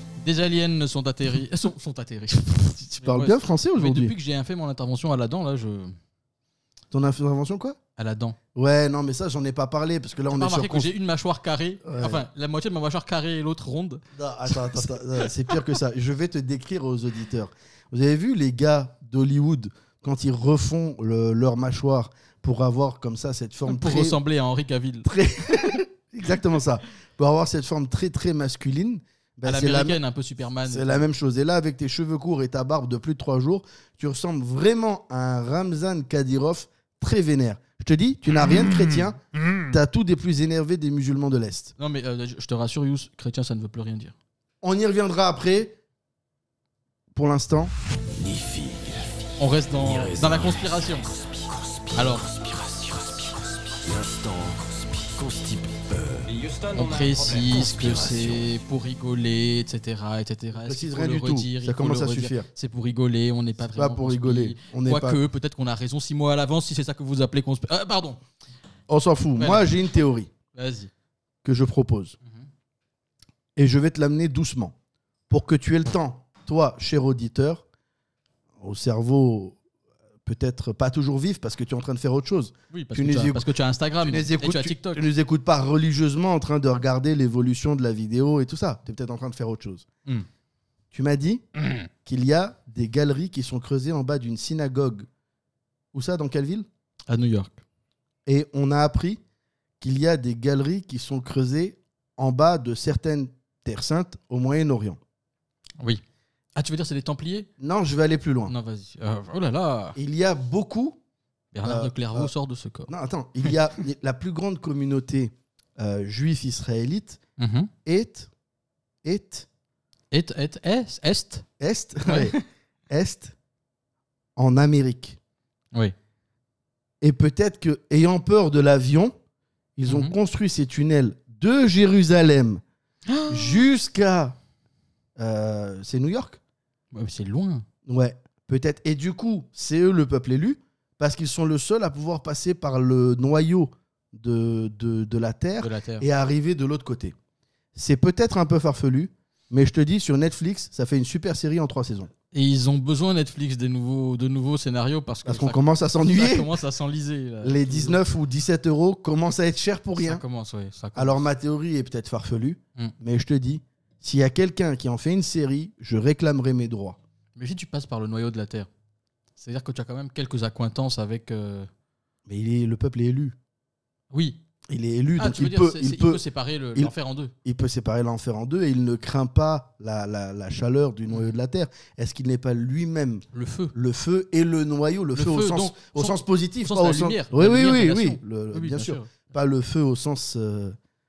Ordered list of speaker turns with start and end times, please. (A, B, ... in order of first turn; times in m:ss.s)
0:00.2-0:06.0 A
0:02.9-0:04.1 B
0:06.9-0:07.8 B
0:08.0-0:08.4 A
0:08.6-0:10.9 B
0:10.3-0:15.3 A
0:11.8-0:12.2 B
0:14.2-0:24.2 B
0:23.7-0:25.1 A
0:25.0-0:30.0 B
0:29.4-0:31.1 A
0:30.6-0:41.7 B
0:41.8-0:44.2 A
0:44.6-0:45.8 B
0:47.1-0:47.7 B
0:48.2-0:49.1 C
0:49.4-0:51.1 A
0:49.8-0:56.3 C
0:52.0-0:52.2 A
0:56.7-1:08.2 A
0:57.4-0:58.5 C
1:00.5-1:02.5 B
1:03.7-1:05.2 B
1:08.9-1:10.3 B
1:09.4-1:10.0 A
1:10.5-1:10.9 A
1:11.4-1:12.2 B
1:13.6-1:14.8 B
1:15.3-1:17.6 B
1:18.6-1:19.6 B
1:20.2-1:23.5 B
1:22.7-1:25.0 A
1:24.0-1:29.9 B
1:30.9-1:31.4 B
1:32.0-1:35.1 B
1:35.9-1:36.7 B
1:37.1-1:37.6 A
1:38.3-1:39.2 B
1:39.8-1:45.0 B
1:46.6-1:47.5 A
1:47.6-1:48.6 B
1:48.5-1:50.0 A
1:50.0-1:51.0 B
1:51.5-1:52.9 A
1:51.6-1:52.3 B
1:52.9-1:57.2 B
1:57.4-1:57.7 A
1:57.8-1:58.3 B
1:59.0-1:59.5 B
2:00.1-2:01.4 A
2:01.6-2:02.4 B
2:02.1-2:02.4 A
2:02.9-2:03.3 B
2:04.4-2:05.2 B
2:07.0-2:09.2 B
2:09.8-2:12.6 B
2:09.9-2:10.2 A
2:13.1-2:13.6 A
2:13.3-2:14.4 B
2:15.2-2:16.4 B
2:16.9-2:17.6 A
2:17.9-2:27.2 B
2:25.6-2:26.1 A
2:27.8-2:32.1 B
2:32.3-2:38.0 A
2:35.2-2:36.5 B
2:37.4-2:40.2 B
2:40.0-2:41.2 A
2:41.0-2:47.0 B
2:47.4-2:48.7 A
2:49.4-2:51.7 A
2:52.3-2:53.4 B
2:54.1-2:54.4 A
2:54.7-2:56.2 B
2:55.2-2:57.3 A
2:57.4-3:10.8 B
3:03.3-3:03.7 A
3:05.2-3:09.2 A